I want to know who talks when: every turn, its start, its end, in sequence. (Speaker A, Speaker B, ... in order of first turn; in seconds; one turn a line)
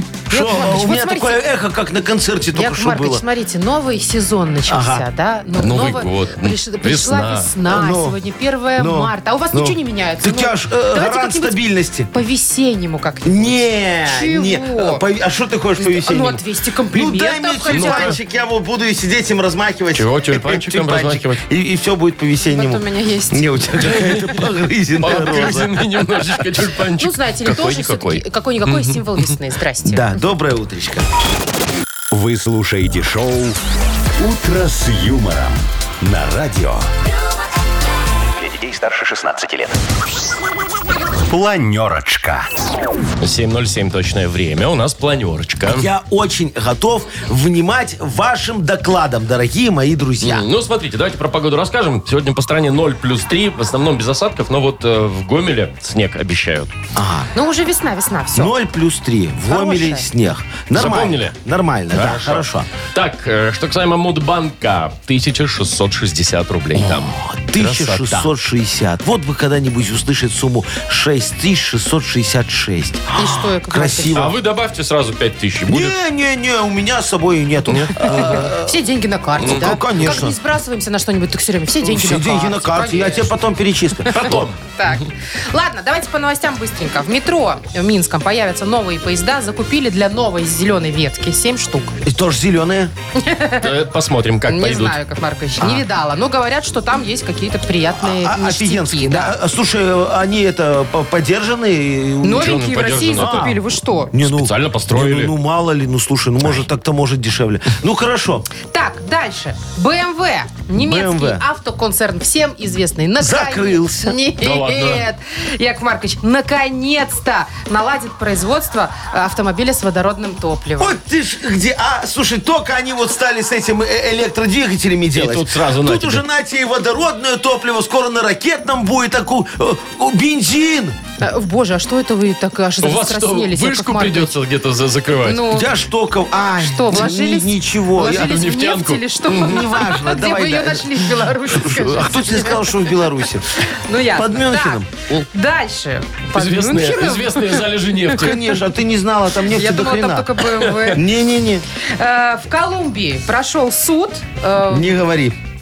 Speaker A: 0.3-3.2
Speaker B: 0.3-1.4
Speaker B: 2.5-11.6
Speaker A: 4.7-5.0
Speaker C: 5.5-7.5
Speaker A: 7.7-8.2
Speaker A: 8.8-12.1
Speaker B: 12.1-15.0
Speaker A: 13.2-16.4
Speaker B: 15.8-18.2
Speaker A: 16.9-25.8
Speaker C: 17.7-18.1
Speaker C: 19.9-21.4
Speaker B: 22.5-23.5
Speaker C: 23.8-24.4
Speaker C: 25.0-29.3
Speaker B: 27.0-30.2
Speaker A: 29.8-31.0
Speaker D: 32.1-33.6
Speaker D: 34.2-36.9
Speaker D: 38.4-39.8
Speaker D: 41.2-42.5
Speaker C: 43.2-45.9
Speaker A: 45.6-50.5
Speaker C: 50.2-56.7
Speaker A: 57.0-57.3
Speaker B: 57.3-58.5
Speaker A: 58.3-62.7
Speaker B: 59.5-60.0
Speaker C: 60.7-61.4
Speaker C: 61.9-68.3
Speaker A: 66.7-74.3
Speaker B: 73.2-74.2
Speaker C: 74.1-76.0
Speaker A: 75.7-78.8
Speaker C: 77.7-78.5
Speaker B: 78.0-83.3
Speaker C: 79.4-79.7
Speaker A: 79.4-80.4
Speaker A: 81.8-84.4
Speaker B: 84.0-91.9
Speaker C: 84.1-85.0
Speaker A: 92.0-92.9
Speaker B: 93.2-93.7
Speaker C: 93.6-95.0
Speaker B: 94.5-99.3
Speaker A: 95.6-95.8
Speaker A: 98.0-102.6
Speaker B: 102.2-104.1
Speaker C: 102.3-103.6
Speaker A: 103.2-108.5
Speaker C: 104.1-105.3
Speaker B: 108.6-121.0
Speaker A: 110.7-111.4
Speaker A: 113.2-114.2
Speaker C: 114.4-115.0
Speaker A: 120.8-130.9
Speaker C: 125.1-126.2
Speaker B: 131.2-134.3
Speaker C: 132.8-135.5
Speaker B: 135.2-135.7
Speaker A: 135.5-138.4
Speaker B: 136.6-142.9
Speaker C: 138.0-139.7
Speaker A: 139.3-143.6
Speaker B: 143.7-147.7
Speaker A: 144.1-144.9
Speaker C: 146.3-148.5
Speaker A: 148.2-151.6
Speaker B: 149.4-151.0
Speaker C: 150.6-150.9
Speaker B: 151.9-154.9
Speaker A: 154.7-155.3